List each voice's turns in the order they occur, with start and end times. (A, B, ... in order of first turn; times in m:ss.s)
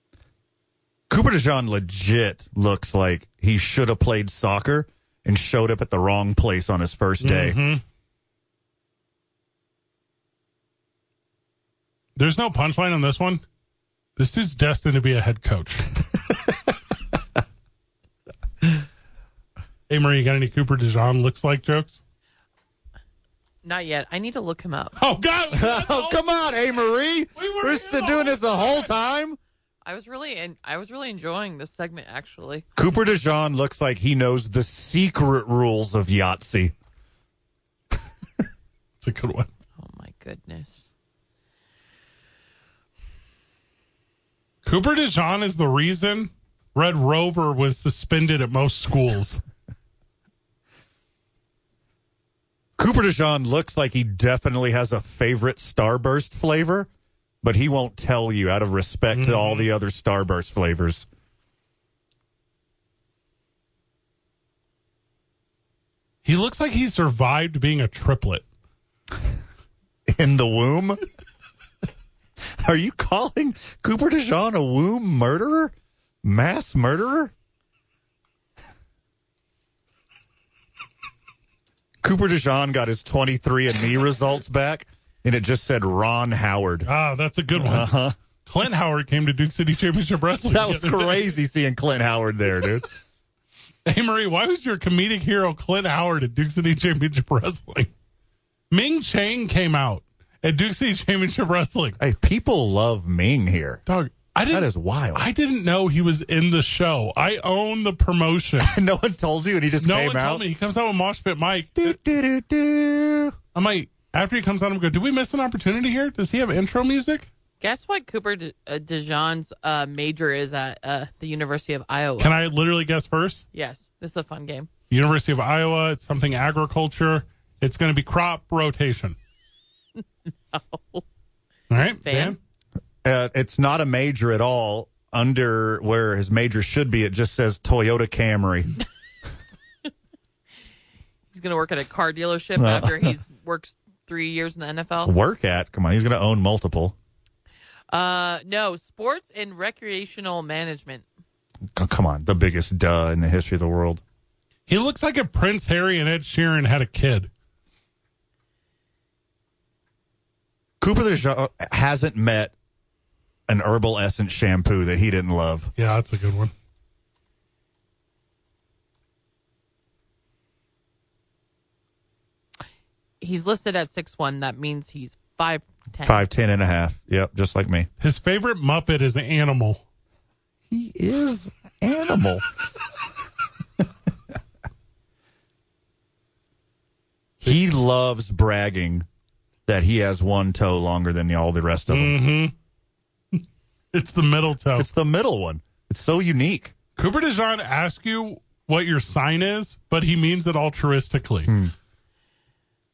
0:01.1-0:07.6 A
0:07.2-0:07.8 B
0:12.2-0:13.4 B
0:14.2-0:15.9 B
0:19.9-0:22.0 B
0:23.6-0:25.0 C
0:25.0-0:28.9 B
0:25.5-0:29.4 A
0:29.8-0:32.7 C
0:32.8-0:36.8 A
0:39.0-0:39.5 B
0:39.8-0:40.9 C
0:44.6-0:49.4 B
0:52.8-0:56.9 A
0:57.4-1:01.1 A
0:59.1-0:59.7 B
1:06.2-1:08.5 B
1:10.1-1:11.0 A
1:12.4-1:15.7 A
1:16.2-1:17.3 A
1:22.0-1:26.9 A
1:26.8-1:27.9 B
1:27.6-1:28.2 A
1:28.5-1:31.3 B
1:30.4-1:32.9 A
1:33.9-1:37.9 B
1:38.7-1:42.0 B
1:42.0-1:43.8 A
1:43.9-1:48.8 B
1:44.5-1:45.3 A
1:48.6-1:50.4 A
1:49.8-1:52.0 B
1:51.8-1:53.4 A
1:53.6-1:57.3 B
1:57.6-2:02.4 C
2:02.2-2:03.4 B
2:03.5-2:04.7 C
2:04.9-2:09.2 B
2:10.5-2:11.0 C
2:11.7-2:12.4 B
2:12.0-2:12.4 C
2:13.0-2:18.7 A
2:21.3-2:25.1 C
2:22.6-2:23.2 A
2:25.0-2:27.0 A
2:27.9-2:31.1 C
2:31.8-2:34.0 A
2:34.7-2:37.3 B
2:40.8-2:42.5 A
2:43.5-2:45.7 A
2:45.8-2:46.5 B
2:53.2-2:56.2 C
2:56.0-2:57.9 A
2:58.0-2:59.8 B
3:00.7-3:02.4 A
3:07.4-3:09.1 A
3:09.7-3:12.2 A
3:11.9-3:12.5 B
3:13.9-3:14.9 B
3:14.8-3:16.7 A
3:17.0-3:21.5 B
3:21.5-3:21.7 A